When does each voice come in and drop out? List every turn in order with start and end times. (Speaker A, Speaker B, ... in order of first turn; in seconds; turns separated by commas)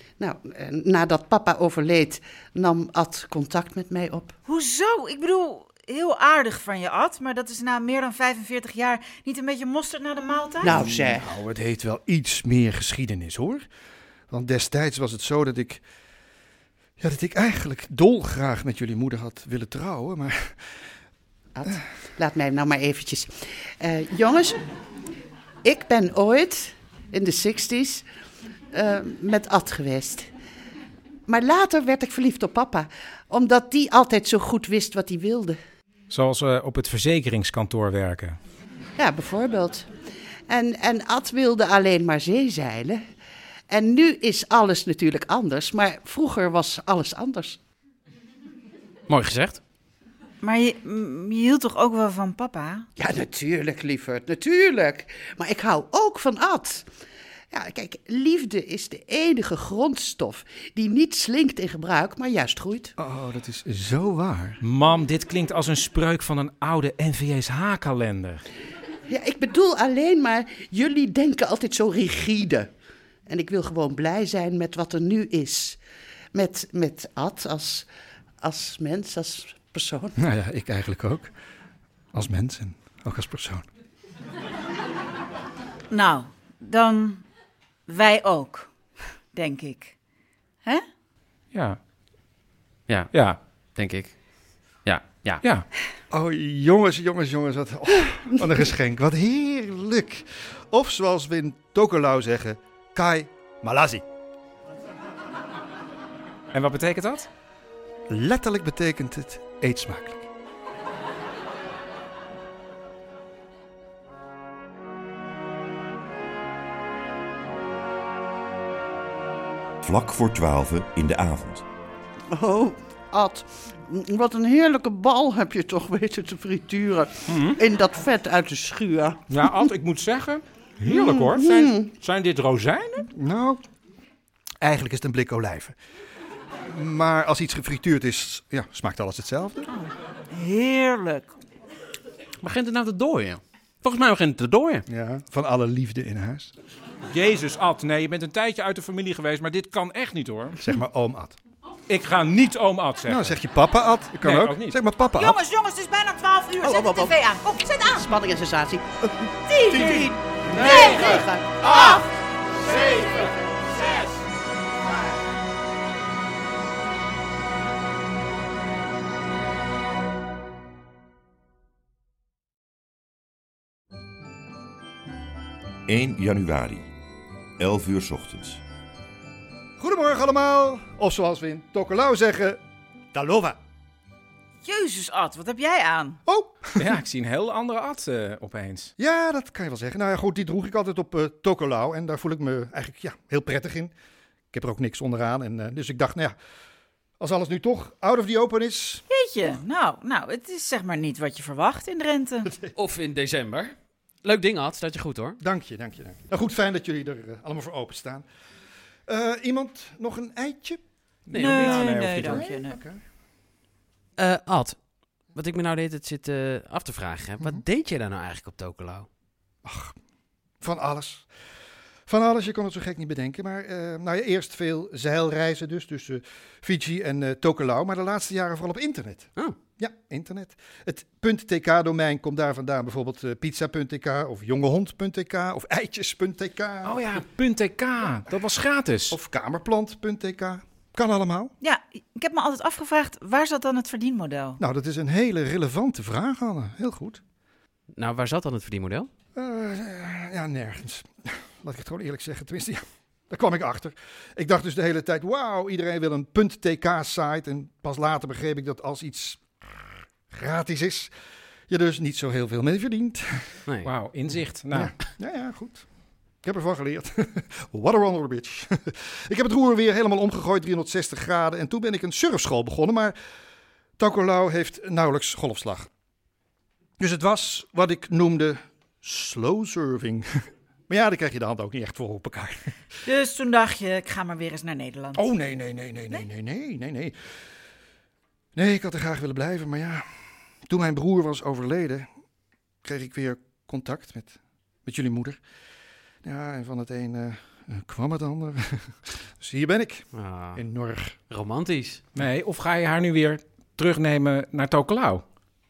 Speaker A: 0.2-4.3, Speaker B: 4.5-10.7, Speaker A: 10.6-11.3, Speaker C: 10.6-13.6, Speaker C: 14.3-15.8, Speaker C: 17.0-20.7, Speaker A: 21.5-24.6, Speaker A: 25.6-28.0, Speaker A: 28.7-30.3, Speaker A: 31.3-35.6, Speaker D: 36.1-38.4, Speaker A: 39.0-39.9, Speaker A: 40.5-43.0, Speaker A: 43.7-47.6, Speaker E: 49.1-49.6, Speaker B: 50.4-52.9, Speaker A: 53.0-56.9, Speaker A: 57.5-62.9, Speaker C: 63.0-64.6, Speaker D: 64.6-68.4, Speaker A: 69.1-72.7, Speaker A: 73.3-75.8, Speaker A: 76.3-77.9, Speaker A: 78.4-80.2, Speaker C: 80.2-81.3, Speaker C: 82.1-83.6, Speaker B: 85.9-87.2, Speaker B: 87.9-88.7, Speaker B: 89.3-90.0, Speaker D: 91.5-91.8, Speaker D: 93.1-93.4, Speaker E: 93.8-94.2, Speaker E: 94.8-95.4, Speaker D: 95.4-95.7, Speaker C: 96.1-104.0, Speaker D: 106.5-107.3, Speaker C: 108.1-110.3, Speaker F: 119.8-121.6, Speaker A: 122.3-129.7, Speaker D: 127.3-127.6, Speaker D: 129.3-133.1, Speaker A: 130.8-131.9, Speaker C: 133.1-133.6, Speaker C: 134.6-135.7, Speaker C: 136.7-139.7, Speaker B: 139.7-141.3, Speaker E: 142.4-144.8, Speaker C: 144.9-146.5, Speaker D: 147.1-150.6, Speaker C: 150.6-151.4, Speaker D: 151.9-153.4, Speaker C: 153.1-155.4, Speaker D: 154.2-154.8, Speaker B: 155.0-158.1, Speaker A: 156.6-157.2, Speaker A: 157.7-162.1, Speaker B: 159.5-162.0, Speaker D: 160.7-161.1, Speaker B: 162.7-163.2, Speaker F: 175.9-176.9, Speaker F: 177.6-178.6, Speaker C: 179.8-182.6, Speaker C: 183.1-183.6, Speaker B: 184.6-186.2, Speaker C: 186.3-187.0, Speaker D: 186.8-188.9, Speaker C: 189.0-193.9, Speaker C: 194.5-196.3, Speaker C: 197.2-199.0, Speaker B: 199.1-202.5, Speaker C: 202.4-202.7, Speaker E: 202.7-205.4, Speaker C: 205.4-208.2, Speaker C: 209.1-210.8, Speaker D: 211.3-212.4, Speaker E: 211.3-211.7, Speaker B: 211.3-212.8, Speaker C: 211.6-213.0, Speaker E: 214.2-214.8, Speaker E: 215.3-219.1, Speaker C: 219.6-219.9, Speaker C: 220.6-221.3, Speaker C: 222.1-237.0, Speaker D: 236.8-239.2, Speaker C: 239.1-241.5, Speaker B: 241.6-244.6, Speaker C: 244.6-247.2, Speaker E: 247.9-249.1, Speaker C: 249.3-261.1, Speaker C: 261.7-263.5, Speaker D: 263.8-264.9, Speaker C: 264.7-265.9, Speaker C: 266.4-273.1, Speaker C: 274.0-275.9, Speaker C: 277.0-280.3, Speaker C: 280.9-282.7, Speaker B: 283.0-285.2, Speaker C: 285.1-287.1, Speaker C: 288.6-290.1, Speaker C: 290.7-292.1, Speaker C: 292.8-295.4, Speaker C: 296.2-301.2, Speaker E: 300.1-300.6, Speaker E: 301.3-302.0, Speaker D: 302.1-305.2